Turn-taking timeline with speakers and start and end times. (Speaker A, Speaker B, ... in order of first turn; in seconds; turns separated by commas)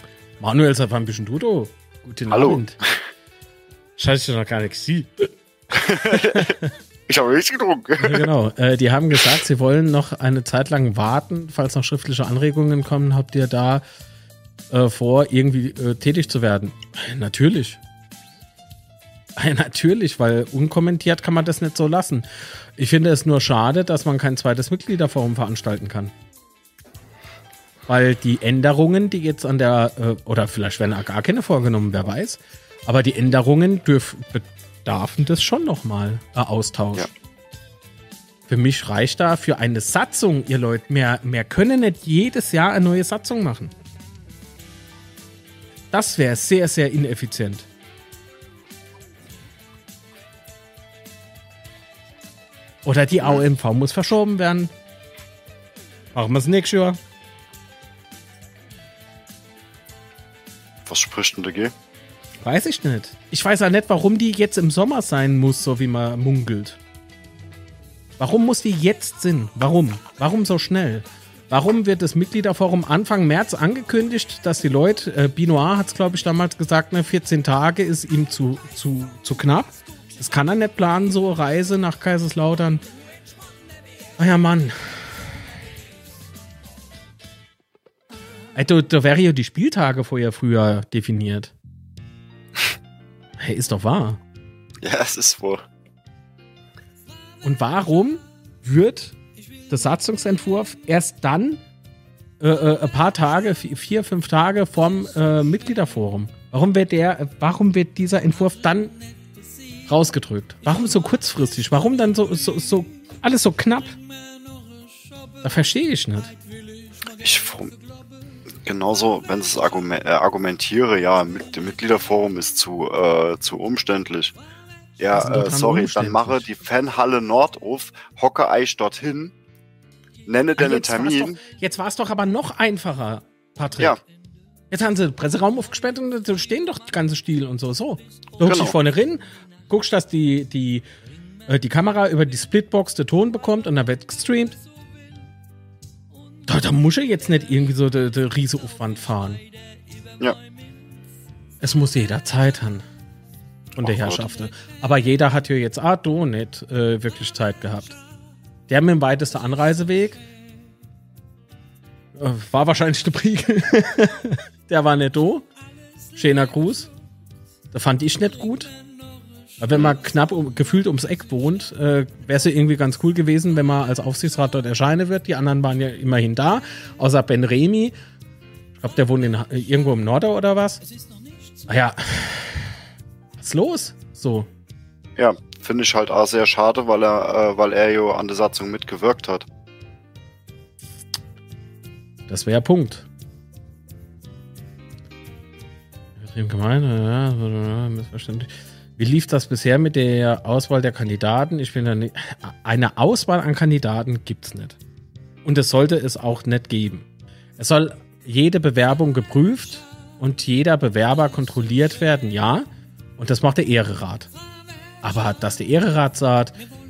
Speaker A: 0.4-2.8, Speaker B: 2.3-3.0, Speaker A: 4.0-5.3, Speaker B: 5.7-6.5, Speaker A: 6.0-6.7, Speaker B: 7.1-8.3, Speaker A: 8.0-13.8, Speaker A: 14.7-17.8, Speaker A: 19.4-22.2, Speaker A: 22.8-26.1, Speaker A: 27.9-37.1, Speaker A: 38.5-43.7, Speaker A: 45.9-47.7, Speaker A: 52.8-54.7, Speaker A: 56.1-57.0, Speaker B: 60.9-61.7, Speaker A: 62.4-66.8, Speaker A: 68.2-82.8, Speaker A: 84.2-85.3, Speaker A: 88.5-91.5, Speaker A: 93.4-94.2, Speaker B: 94.8-95.6, Speaker A: 97.4-99.2, Speaker A: 99.7-101.6, Speaker A: 102.4-108.9, Speaker A: 109.9-114.0, Speaker A: 115.4-116.3, Speaker B: 117.2-117.7, Speaker B: 118.6-124.3, Speaker B: 125.0-129.3, Speaker A: 125.1-126.4, Speaker B: 130.2-131.4, Speaker A: 130.6-134.0, Speaker A: 134.7-140.8, Speaker B: 138.4-138.8, Speaker A: 141.5-144.6, Speaker A: 146.5-149.4, Speaker A: 151.6-152.8, Speaker A: 153.7-158.0, Speaker B: 153.8-154.2, Speaker A: 158.7-160.2, Speaker A: 162.2-165.5, Speaker A: 166.1-166.9, Speaker A: 167.7-168.7, Speaker A: 169.6-177.9, Speaker A: 178.8-180.8, Speaker A: 181.7-182.8, Speaker A: 183.4-184.5, Speaker B: 185.2-189.5, Speaker A: 192.3-193.1, Speaker A: 196.2-204.8, Speaker A: 205.4-207.1, Speaker A: 207.6-214.3, Speaker A: 215.0-216.6